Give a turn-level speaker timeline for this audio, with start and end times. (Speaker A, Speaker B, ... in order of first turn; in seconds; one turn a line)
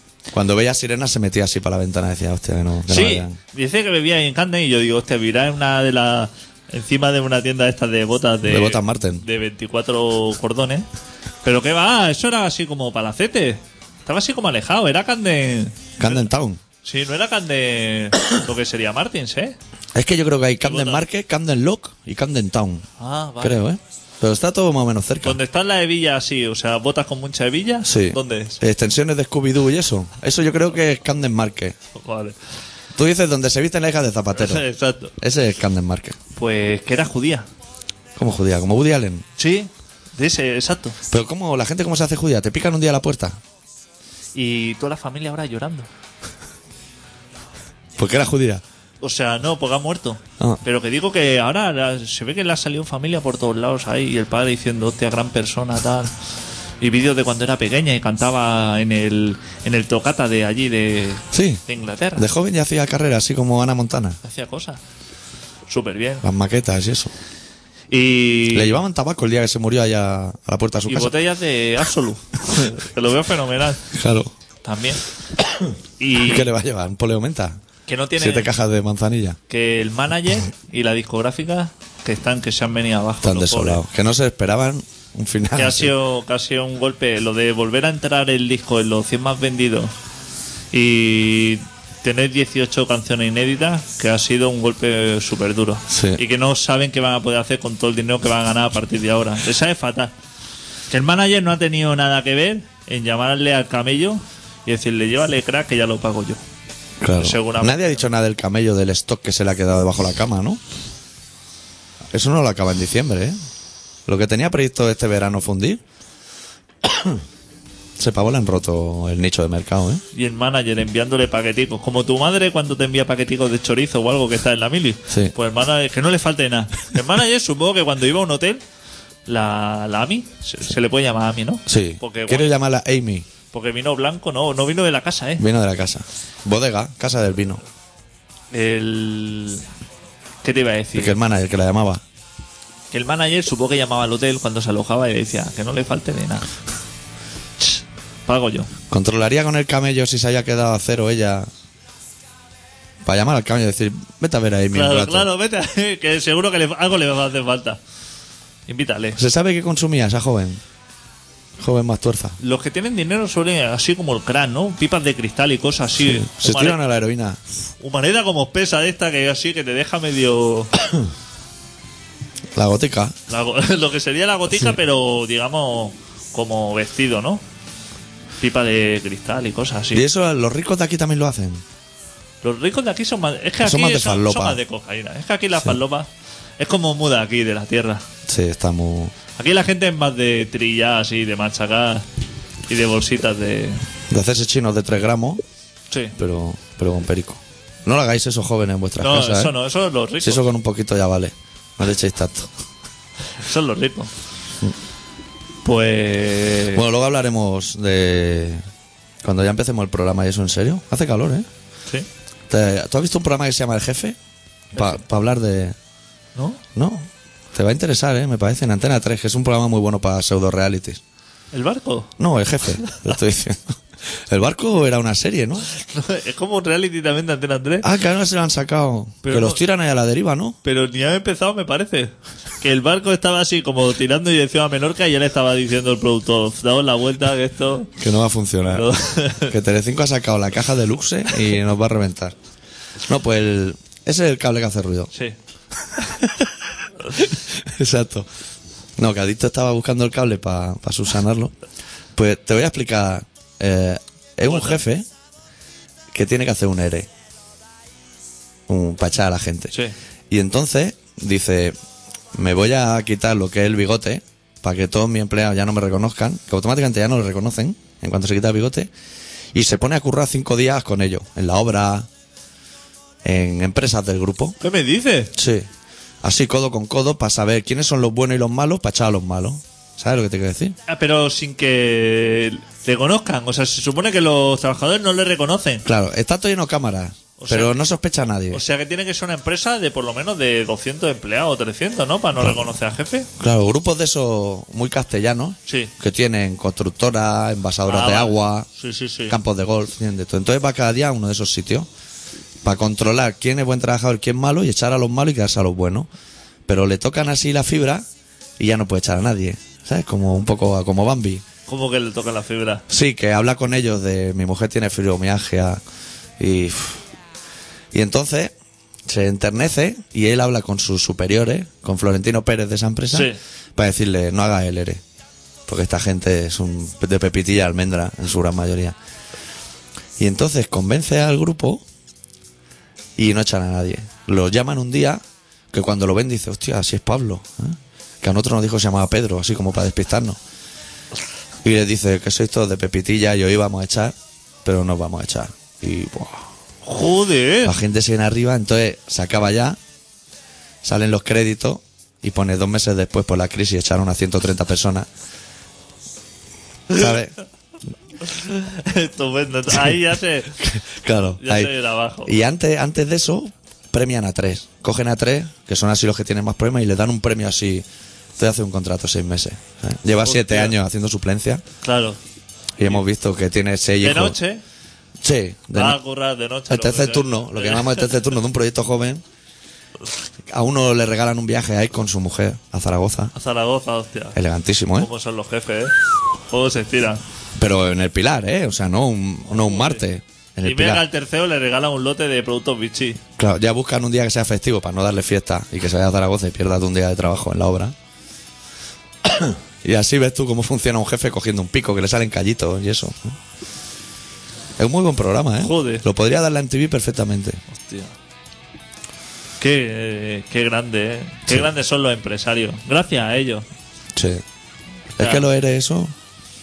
Speaker A: 0.3-3.4
Speaker B: 2.9-10.8
Speaker A: 8.4-9.2
Speaker B: 11.4-16.2
Speaker A: 16.0-16.6
Speaker B: 16.8-19.6
Speaker A: 19.9-22.9
Speaker B: 20.6-21.0
Speaker B: 23.0-23.6
Speaker A: 23.4-25.4
Speaker B: 25.2-28.6
Speaker A: 27.8-31.8
Speaker B: 31.9-32.4
Speaker A: 32.9-34.6
Speaker B: 34.3-35.1
Speaker A: 35.2-36.2
Speaker B: 36.4-37.5
Speaker A: 38.1-39.2
Speaker B: 39.4-41.0
Speaker A: 41.1-43.4
Speaker B: 44.3-45.9
Speaker A: 48.0-48.6
Speaker B: 49.0-56.1
Speaker B: 56.8-62.3
Speaker A: 61.3-61.6
Speaker A: 62.1-64.2
Speaker B: 64.2-64.8
Speaker B: 65.7-66.2
Speaker A: 66.2-67.1
Speaker B: 67.9-68.8
Speaker A: 68.5-71.1
Speaker B: 70.9-73.8
Speaker A: 73.9-74.3
Speaker B: 74.6-75.0
Speaker A: 75.5-77.6
Speaker B: 76.0-76.5
Speaker B: 77.9-78.5
Speaker A: 78.2-79.4
Speaker B: 79.5-83.8
Speaker A: 83.2-85.9
Speaker B: 85.5-89.9
Speaker B: 90.7-100.1
Speaker A: 95.9-96.2
Speaker B: 100.9-106.4
Speaker A: 107.0-110.6
Speaker B: 107.2-108.0
Speaker A: 112.1-113.3
Speaker A: 114.1-115.8
Speaker A: 116.8-117.2
Speaker A: 118.0-120.0
Speaker B: 120.1-128.6
Speaker B: 129.3-132.5
Speaker A: 131.7-133.2
Speaker B: 133.5-135.4
Speaker A: 135.4-137.6
Speaker B: 138.5-139.6
Speaker B: 140.4-141.2
Speaker A: 140.9-142.0
Speaker B: 142.9-146.5
Speaker B: 147.6-148.7
Speaker A: 148.9-151.5
Speaker A: 153.0-155.3
Speaker B: 154.7-157.8
Speaker B: 158.7-159.2
Speaker A: 159.2-160.6
Speaker A: 161.6-162.4
Speaker B: 162.4-166.8
Speaker A: 166.0-167.4
Speaker B: 167.8-170.7
Speaker A: 172.5-173.2
Speaker B: 173.3-177.4
Speaker B: 178.4-180.0
Speaker A: 179.9-181.6
Speaker B: 182.4-188.0
Speaker A: 183.6-184.6
Speaker A: 188.3-189.1
Speaker B: 189.3-192.1
Speaker B: 192.7-193.8
Speaker A: 194.1-195.4
Speaker B: 195.9-196.2
Speaker A: 196.2-199.5
Speaker B: 199.0-200.4
Speaker A: 200.2-202.5
Speaker B: 203.4-204.1
Speaker B: 205.6-206.8
Speaker A: 206.7-208.6
Speaker A: 209.2-211.5
Speaker A: 212.5-214.2
Speaker A: 214.7-215.8
Speaker B: 216.3-216.6
Speaker A: 216.7-221.0
Speaker B: 221.5-222.1
Speaker A: 222.2-223.7
Speaker B: 222.8-223.1
Speaker A: 224.3-225.7
Speaker B: 225.7-227.8
Speaker A: 227.8-230.6
Speaker B: 229.2-229.6
Speaker B: 230.6-237.9
Speaker A: 238.0-238.9
Speaker B: 238.7-239.5
Speaker A: 239.4-242.3
Speaker A: 243.1-245.1
Speaker A: 246.0-246.5
Speaker A: 247.1-248.3
Speaker A: 249.0-251.5
Speaker A: 252.2-255.1
Speaker B: 254.5-254.8
Speaker A: 256.1-257.1
Speaker A: 258.7-259.7
Speaker A: 260.3-261.8
Speaker A: 262.3-268.9
Speaker A: 269.5-272.1
Speaker A: 273.2-274.6
Speaker B: 274.6-275.3
Speaker A: 275.3-275.7
Speaker A: 276.2-280.8
Speaker B: 280.9-285.9
Speaker A: 285.8-288.6
Speaker B: 287.4-287.8
Speaker B: 288.5-293.3
Speaker A: 292.4-292.7
Speaker A: 293.4-298.7
Speaker B: 295.7-295.9
Speaker B: 297.9-299.4
Speaker A: 299.3-301.9
Speaker A: 302.6-306.1
Speaker A: 306.7-308.0
Speaker A: 308.6-311.4
Speaker B: 311.7-312.8
Speaker A: 312.9-315.8
Speaker A: 316.4-317.0
Speaker A: 317.9-318.5
Speaker A: 319.1-325.0
Speaker B: 323.1-323.4
Speaker A: 325.7-328.9
Speaker A: 330.2-331.8
Speaker A: 333.1-340.4
Speaker A: 341.6-346.4
Speaker B: 346.8-347.7
Speaker A: 347.6-349.8
Speaker A: 350.8-355.1
Speaker A: 356.9-357.3
Speaker B: 358.2-360.6
Speaker A: 360.6-361.7
Speaker B: 361.4-362.3
Speaker A: 362.2-367.9
Speaker A: 368.4-371.6
Speaker B: 370.2-370.8
Speaker B: 371.8-372.2
Speaker A: 372.8-374.4
Speaker B: 374.0-374.6
Speaker A: 375.2-376.0
Speaker B: 375.7-378.2
Speaker A: 376.7-379.2
Speaker A: 380.4-383.3
Speaker B: 383.3-384.4
Speaker A: 384.3-385.1
Speaker B: 384.9-385.9
Speaker B: 386.5-387.2
Speaker A: 387.6-391.0
Speaker B: 389.5-390.0
Speaker B: 390.6-393.2
Speaker A: 393.4-397.9
Speaker A: 399.2-403.4
Speaker A: 404.8-407.6
Speaker B: 405.6-406.0
Speaker B: 407.7-408.1
Speaker B: 409.6-413.7
Speaker A: 414.1-414.4
Speaker A: 415.2-416.1
Speaker B: 415.2-415.4